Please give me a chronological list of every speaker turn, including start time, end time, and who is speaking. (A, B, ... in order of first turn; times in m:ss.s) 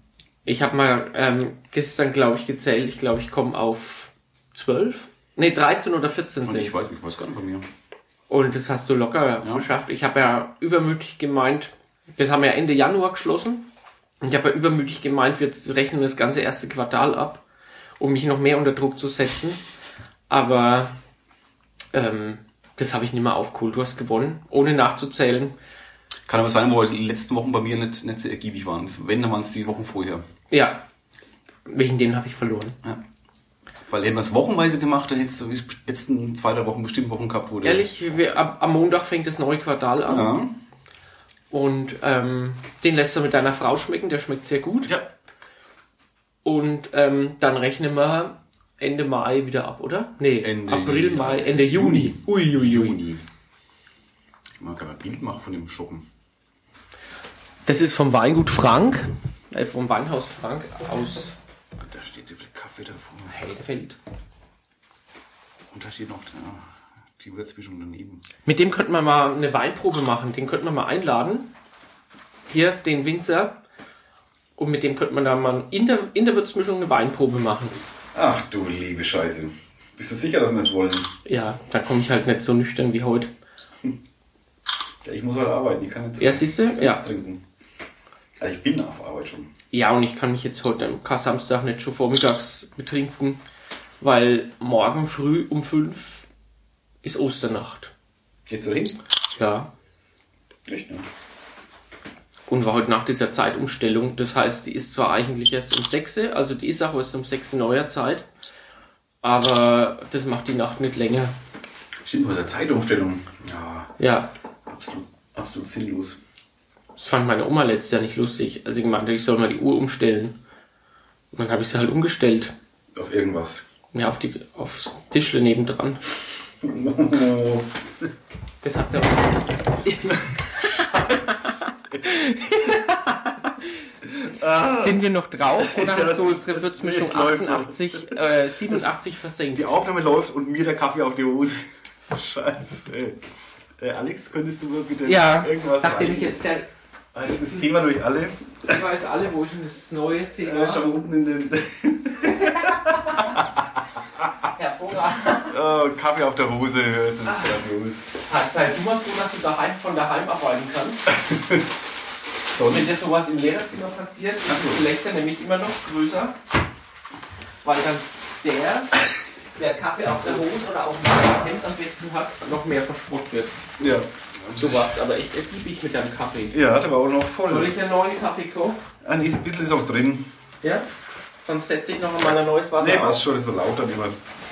0:00.4-0:06.8 A
0:06.4-0:07.6 B
0:08.3-0:13.7 A
0:14.2-0:17.4 A
0:18.0-0:19.6 A
0:20.3-0:20.9 A
0:21.9-0:25.6 A
0:26.3-0:30.2 B
0:30.5-0:30.8 A
0:31.6-0:32.8 A
0:33.9-0:37.8 B
0:37.6-0:40.3 A
0:40.0-0:40.6 B
0:41.5-0:44.9 A
0:46.4-0:53.0 A
0:50.4-0:53.2 B
0:54.6-0:56.0 B
0:57.6-1:01.3 A
1:01.8-1:03.3 B
1:03.3-1:04.0 A
1:05.7-1:08.2 B
1:08.4-1:11.5 A
1:12.5-1:13.6 A
1:14.6-1:17.8 A
1:18.1-1:21.1 B
1:21.2-1:23.3 A
1:25.0-1:27.4 B
1:26.2-1:27.0 A
1:28.4-1:29.5 B
1:29.7-1:33.4 A
1:34.0-1:36.3 A
1:37.0-1:37.9 A
1:38.5-1:39.0 B
1:39.4-1:39.7 A
1:40.7-1:41.0 B
1:42.5-1:48.3 A
1:49.2-1:51.3 A
1:52.0-1:53.9 B
1:54.0-1:54.3 A
1:54.6-1:56.2 B
1:57.0-2:00.4 A
2:01.3-2:02.5 A
2:02.9-2:03.6 B
2:03.9-2:06.1 A
2:06.6-2:08.1 B
2:08.6-2:13.0 A
2:10.2-2:12.1 B
2:12.8-2:13.5 B
2:14.0-2:15.0 B
2:14.6-2:19.8 A
2:15.6-2:18.9 B
2:19.5-2:23.2 B
2:23.8-2:26.4 B
2:25.0-2:26.7 A
2:27.1-2:28.8 B
2:28.6-2:30.9 A
2:30.4-2:34.3 B
2:34.4-2:35.5 A
2:35.4-2:38.1 B
2:38.2-2:41.1 A
2:41.1-2:41.7 B
2:42.5-2:42.9 B
2:42.6-2:46.4 A
2:44.4-2:44.9 B
2:47.6-2:49.0 A
2:49.6-2:53.5 A
2:53.8-2:54.9 B
2:54.6-2:56.6 A
2:56.5-2:57.7 B
2:57.4-2:58.9 A
2:59.0-3:00.3 B
3:01.4-3:03.2 A
3:02.8-3:04.2 B